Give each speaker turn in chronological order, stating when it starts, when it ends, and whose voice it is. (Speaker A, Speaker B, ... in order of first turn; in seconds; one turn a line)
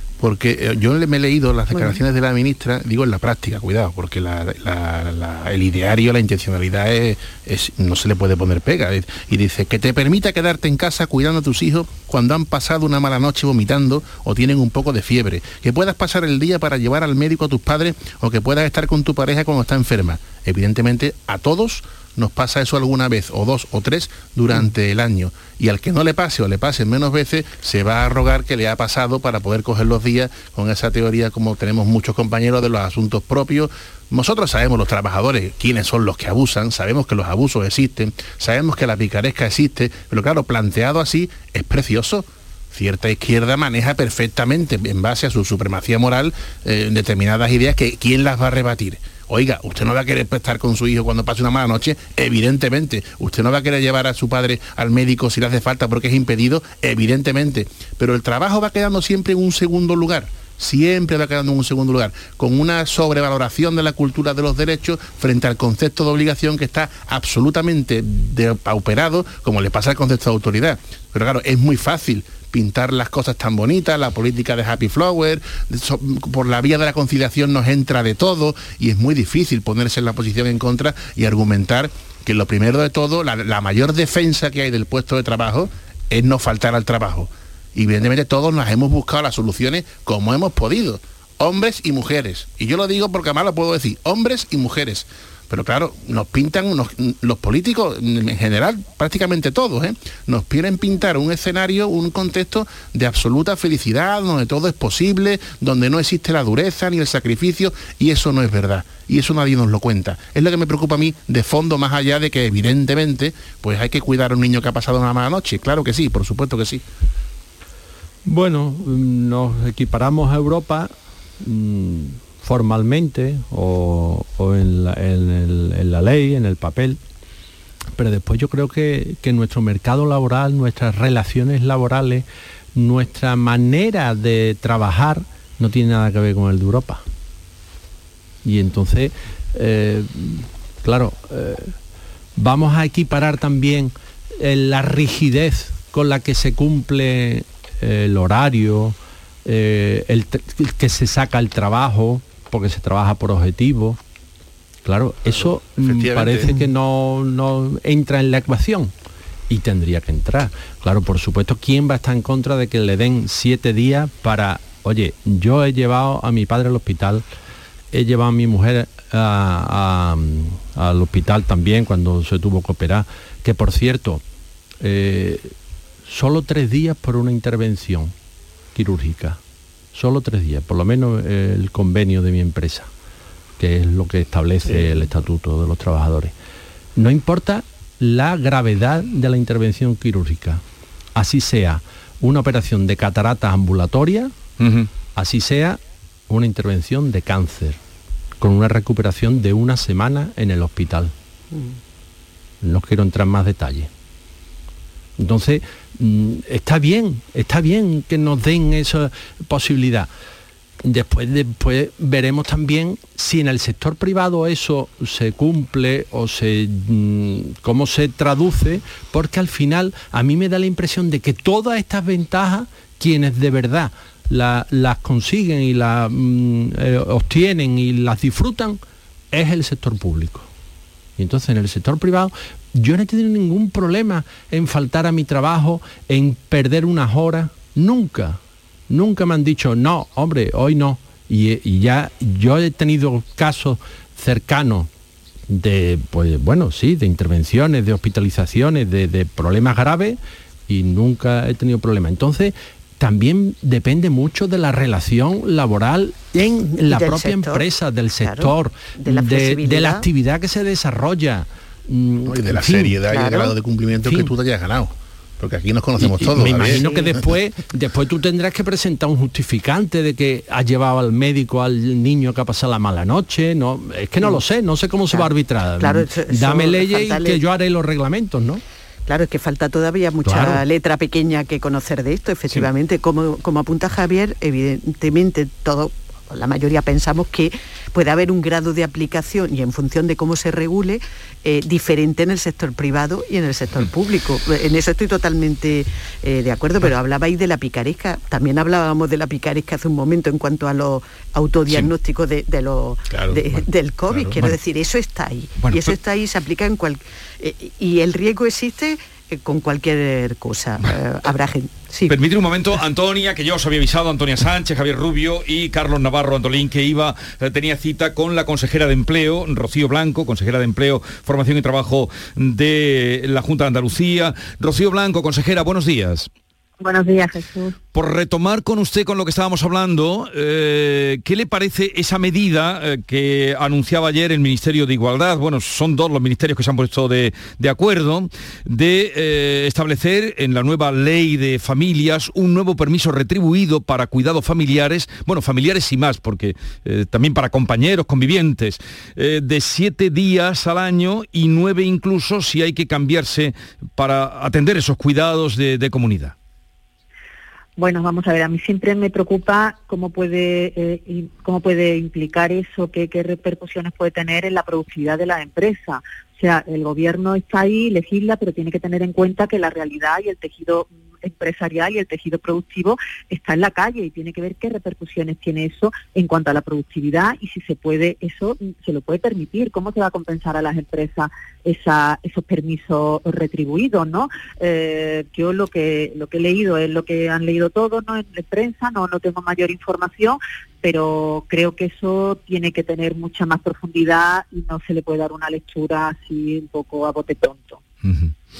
Speaker A: 0.2-116.8
Speaker B: 1.7-2.0
Speaker C: 118.2-127.0
Speaker C: 128.0-137.0
Speaker C: 138.4-141.7
Speaker C: 142.3-154.0
Speaker C: 154.8-158.9
Speaker A: 155.3-156.7
Speaker C: 159.5-167.2
Speaker C: 167.9-174.2
Speaker C: 174.8-175.5
Speaker C: 176.1-178.1
Speaker C: 178.7-179.4
Speaker C: 179.9-182.9
Speaker C: 183.6-186.3
Speaker C: 186.9-190.6
Speaker C: 191.1-194.3
Speaker D: 194.6-194.9
Speaker C: 195.2-197.8
Speaker C: 198.4-201.1
Speaker B: 201.5-201.8
Speaker C: 202.6-203.9
Speaker C: 205.2-210.1
Speaker C: 210.8-228.8
Speaker C: 229.3-230.5
Speaker C: 231.2-238.4
Speaker C: 238.9-244.9
Speaker C: 245.5-263.0
Speaker B: 256.7-257.7
Speaker B: 258.2-260.1
Speaker A: 262.2-266.9
Speaker B: 263.1-263.5
Speaker C: 264.0-264.3
Speaker C: 266.0-278.6
Speaker B: 266.6-267.2
Speaker B: 275.1-277.4
Speaker B: 279.1-312.1
Speaker C: 280.2-280.6
Speaker A: 303.1-303.4
Speaker A: 304.1-304.4
Speaker D: 305.6-305.9
Speaker D: 312.1-326.3
Speaker E: 326.8-327.8
Speaker D: 327.9-356.3
Speaker E: 357.8-397.8
Speaker D: 398.0-398.3